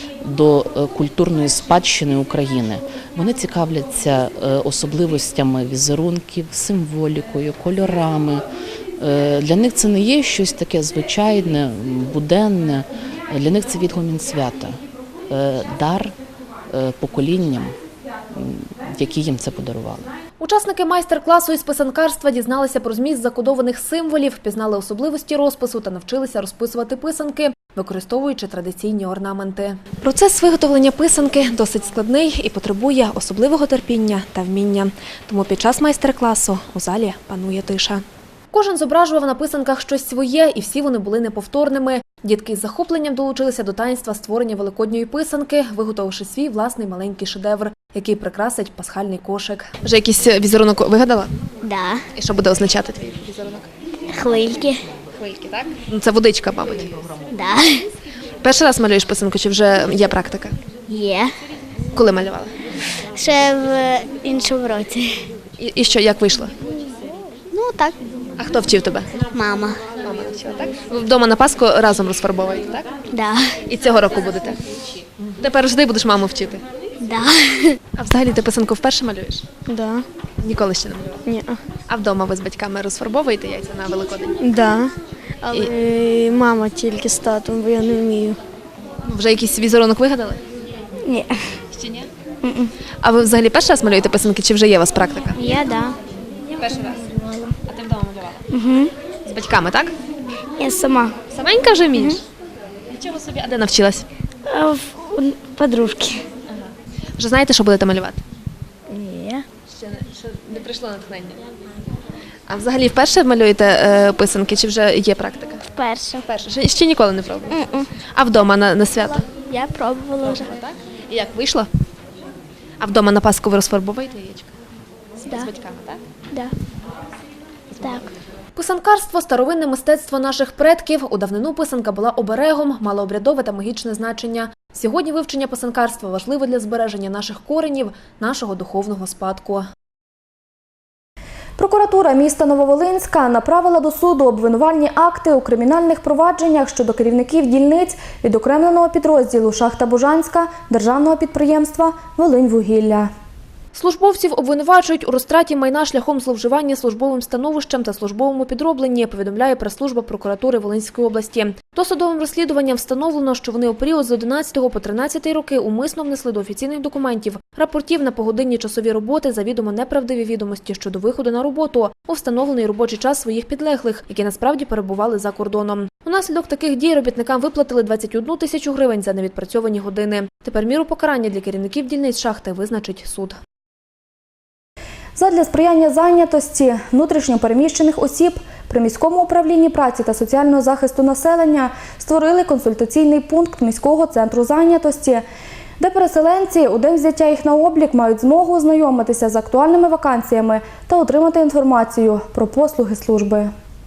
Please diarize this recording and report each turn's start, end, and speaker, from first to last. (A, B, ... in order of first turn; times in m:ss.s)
0:00.2-0:08.4 A
0:09.0-0:16.1 A
0:16.7-0:17.8 A
0:18.3-0:20.1 A
0:20.4-0:51.3 B
0:51.6-0:52.0 C
0:52.1-0:53.7 B
0:54.1-0:54.8 C
0:55.1-0:57.0 B
0:57.3-0:57.8 C
0:58.4-1:00.5 B
1:00.9-1:01.3 C
1:01.9-1:02.5 B
1:03.1-1:05.2 C
1:05.6-1:06.5 B
1:07.5-1:08.0 C
1:08.4-1:09.2 B
1:09.3-1:09.8 C
1:10.0-1:12.9 B
1:13.1-1:13.5 C
1:13.7-1:14.6 B
1:15.4-1:16.6 B
1:17.0-1:17.8 C
1:18.0-1:19.4 B
1:19.6-1:20.1 D
1:20.4-1:21.2 B
1:21.2-1:21.6 D
1:21.8-1:24.4 B
1:24.4-1:28.4 D
1:29.0-1:30.4 B
1:31.1-1:31.4 D
1:31.7-1:32.1 B
1:33.0-1:35.4 B
1:35.3-1:36.0 C
1:36.6-1:37.1 B
1:37.6-1:38.4 B
1:39.2-1:39.9 B
1:41.3-1:42.2 B
1:42.9-1:44.1 B
1:44.5-1:45.7 D
1:47.2-1:48.2 B
1:48.9-1:49.2 D
1:49.7-1:51.4 B
1:52.5-1:55.6 B
1:55.8-1:56.2 C
1:56.2-1:59.3 B
1:57.5-1:57.9 C
1:59.4-2:00.5 C
2:00.2-2:01.7 B
2:02.8-2:04.5 B
2:05.2-2:06.0 B
2:07.7-2:19.6 B
2:21.6-2:33.1 E
2:33.7-3:03.4 B
3:05.2-3:15.2 E
3:15.8-3:23.5 E